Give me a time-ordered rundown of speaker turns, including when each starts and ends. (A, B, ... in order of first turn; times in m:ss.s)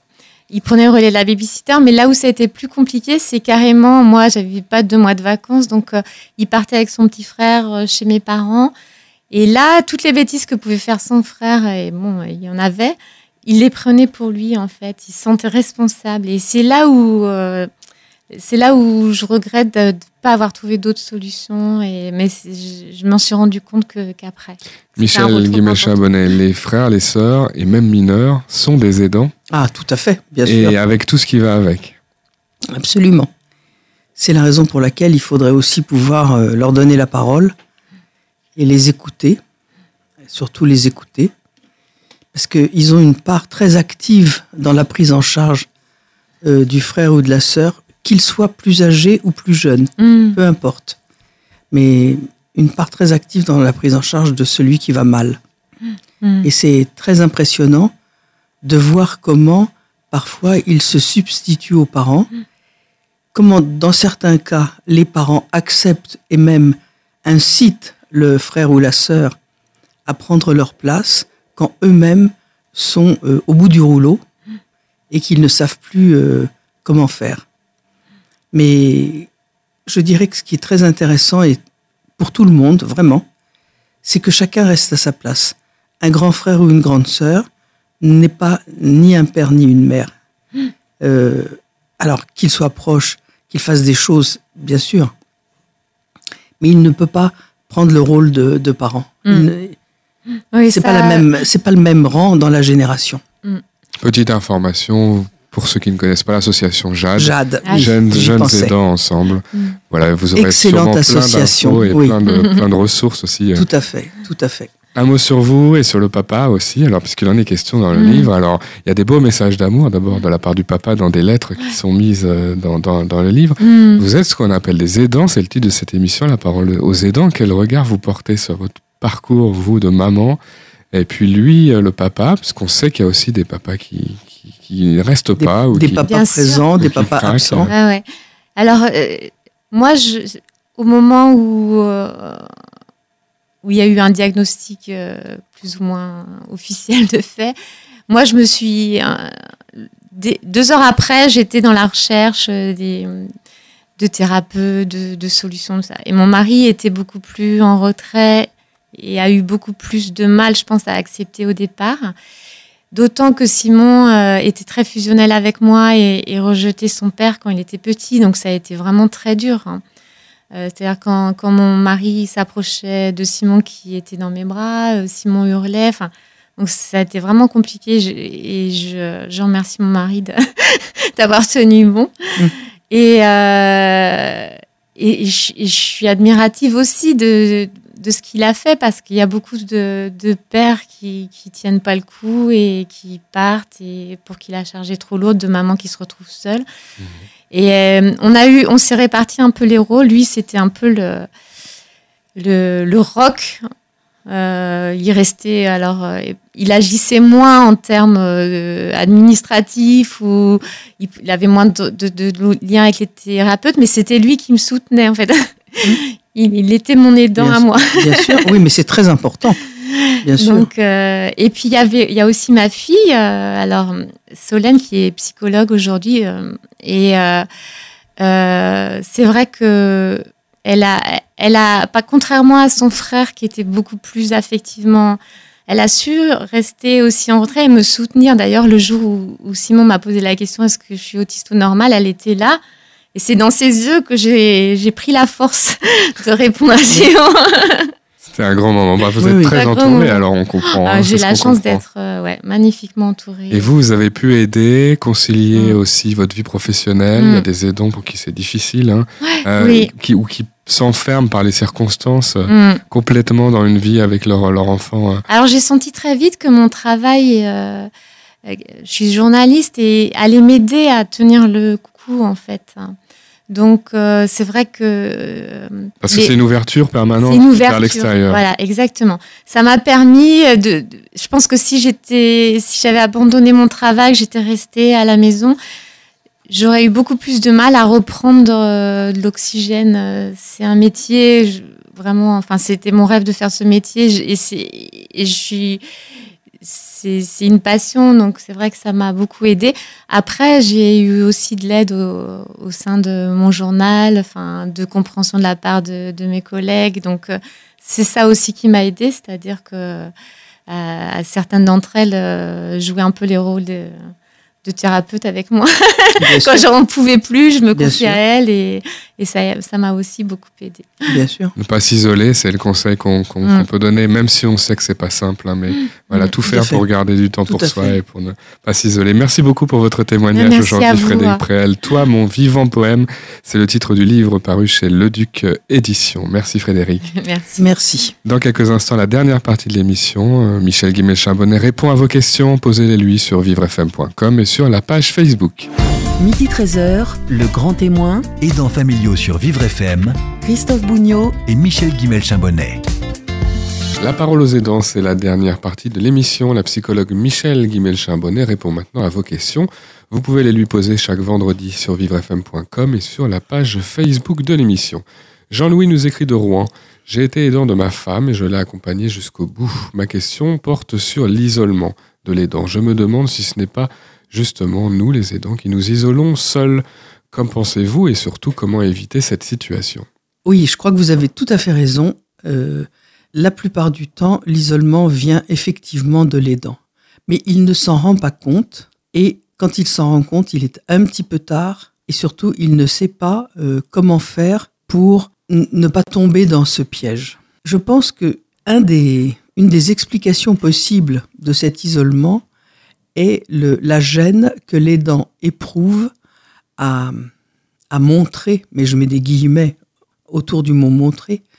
0:00.5-0:08.7 A
0:09.3-0:17.7 A
0:18.3-0:26.1 A
0:25.0-0:29.3 B
0:29.5-0:30.8 C
0:30.4-0:32.0 B
0:32.7-0:33.3 C
0:34.2-0:37.5 C
0:38.6-0:39.4 C
0:40.2-0:41.3 C
0:42.3-0:45.7 C
0:46.4-0:51.0 C
0:50.0-0:50.4 A
0:51.7-0:55.4 C
0:56.2-0:56.5 A
0:56.4-0:57.9 C
0:58.6-1:02.3 C
1:03.3-1:09.4 C
1:10.1-1:14.2 C
1:15.1-1:17.5 C
1:18.5-1:19.3 C
1:19.9-1:21.6 C
1:22.2-1:23.3 C
1:24.0-1:27.5 C
1:28.0-1:30.1 C
1:31.0-1:35.1 C
1:36.6-1:39.8 C
1:39.2-1:39.5 A
1:40.5-1:41.3 A
1:40.7-1:43.2 C
1:44.0-1:53.7 B
1:47.2-1:48.8 C
1:47.6-1:47.9 A
1:50.4-1:52.2 C
1:52.3-1:52.6 A
1:53.6-1:54.7 C
1:55.0-2:10.4 B
1:57.9-1:58.3 A
2:03.6-2:04.0 A
2:10.9-2:16.0 B
2:15.4-2:17.7 C
2:16.0-2:16.6 A
2:16.8-2:17.7 B
2:17.7-2:18.0 A
2:18.6-2:22.5 A
2:23.6-2:27.6 A
2:28.1-2:33.3 A
2:34.0-2:42.1 A
2:42.9-2:49.8 A
2:50.5-3:02.1 A
3:02.9-3:16.6 A
3:17.5-3:21.3 A
3:22.4-3:23.6 A
3:24.3-3:38.5 A
3:37.4-3:39.6 C
3:39.9-3:47.5 A
3:40.2-3:40.7 C
3:48.2-4:02.6 A
4:03.1-4:07.9 A
4:08.2-4:11.8 B
4:09.2-4:09.6 C
4:09.5-4:13.7 A
4:13.5-4:25.2 B
4:17.2-4:17.4 A
4:19.2-4:19.9 A
4:22.5-4:22.8 A
4:25.3-4:27.9 A
4:28.5-4:33.0 A
4:33.5-4:36.3 A
4:36.0-4:38.4 B
4:37.2-4:45.6 A
4:46.5-4:55.8 A
4:56.6-5:10.1 A
5:10.7-5:14.1 A
5:14.6-5:21.0 A
5:16.2-5:16.6 C
5:17.7-5:18.2 C
5:21.1-5:21.5 C
5:21.6-5:37.1 B
5:26.5-5:26.8 C
5:27.5-5:28.0 C
5:30.3-5:31.4 A
5:37.1-5:37.6 A
5:37.6-5:38.1 C
5:38.2-5:45.7 B
5:46.2-5:48.3 D
5:48.4-5:50.2 E
5:50.4-5:51.4 D
5:51.4-5:52.8 E
5:54.0-6:20.1 B
6:20.4-6:42.4 C
6:43.2-6:46.1 C
6:46.8-6:47.3 C
6:47.9-6:51.4 C